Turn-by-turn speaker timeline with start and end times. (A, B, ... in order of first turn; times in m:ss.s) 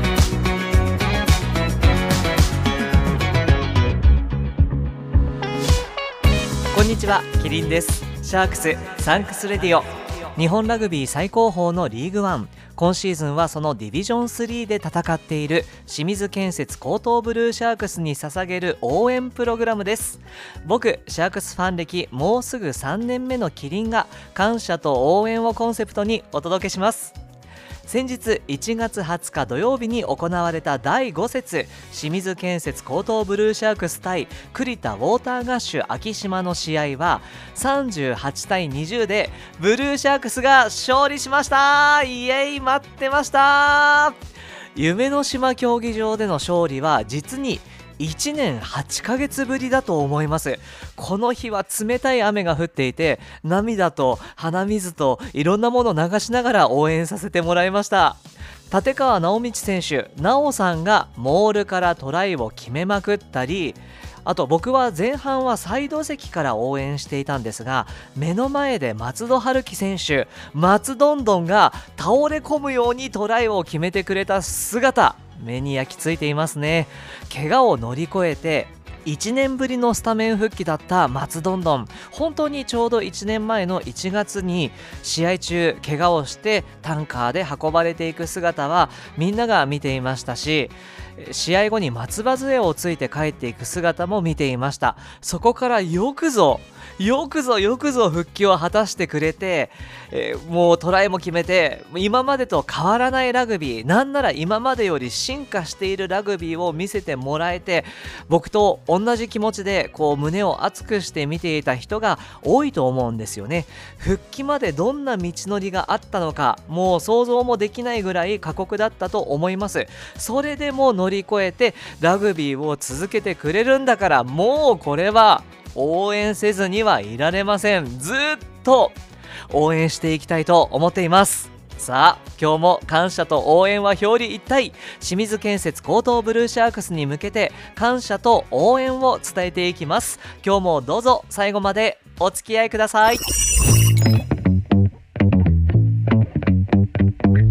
0:06.7-0:27.2 A
0:27.8-0:44.2 A
0:44.8-2:09.0 A
2:09.5-2:23.2 A